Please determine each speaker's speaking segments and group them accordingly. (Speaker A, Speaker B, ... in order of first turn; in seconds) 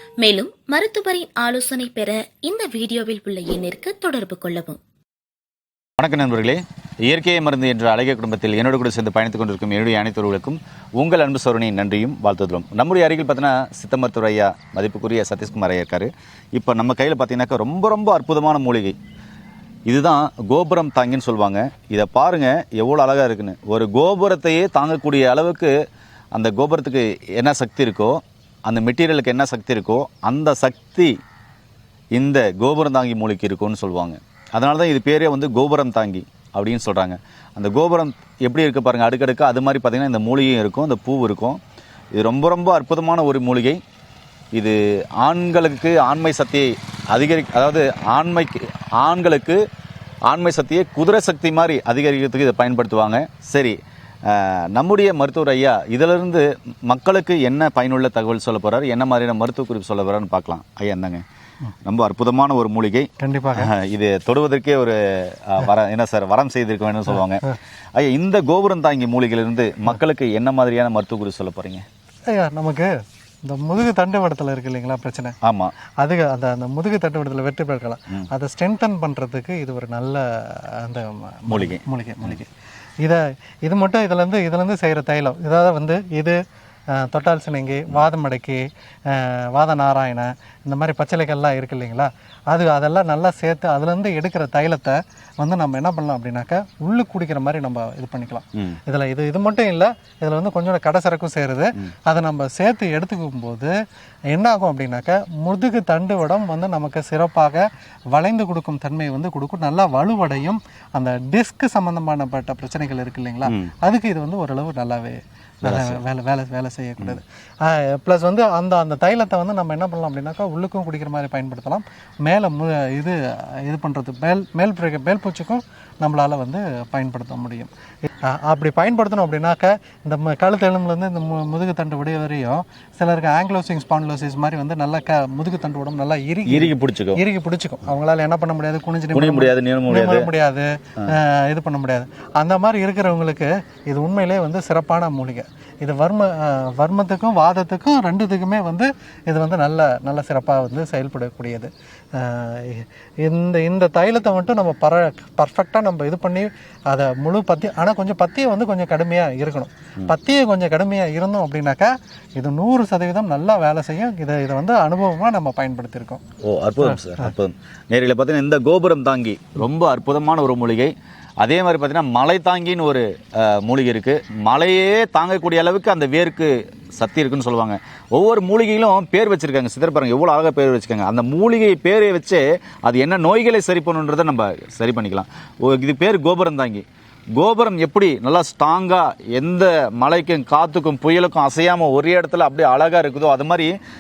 Speaker A: 0.2-4.8
Speaker B: 6.0-19.0, 19.9-25.7, 26.3-31.1, 32.1-41.6, 42.1-43.8, 44.5-49.6, 50.3-53.8, 54.3-61.2, 61.9-71.8, 75.5-75.7, 81.5-82.4, 115.6-116.0, 136.5-137.2, 139.1-140.3, 166.4-193.8
Speaker C: 63.2-63.7, 72.3-72.9, 73.5-75.4, 76.0-82.5, 83.0-86.4, 87.0-103.7, 104.3-127.7, 128.3-166.2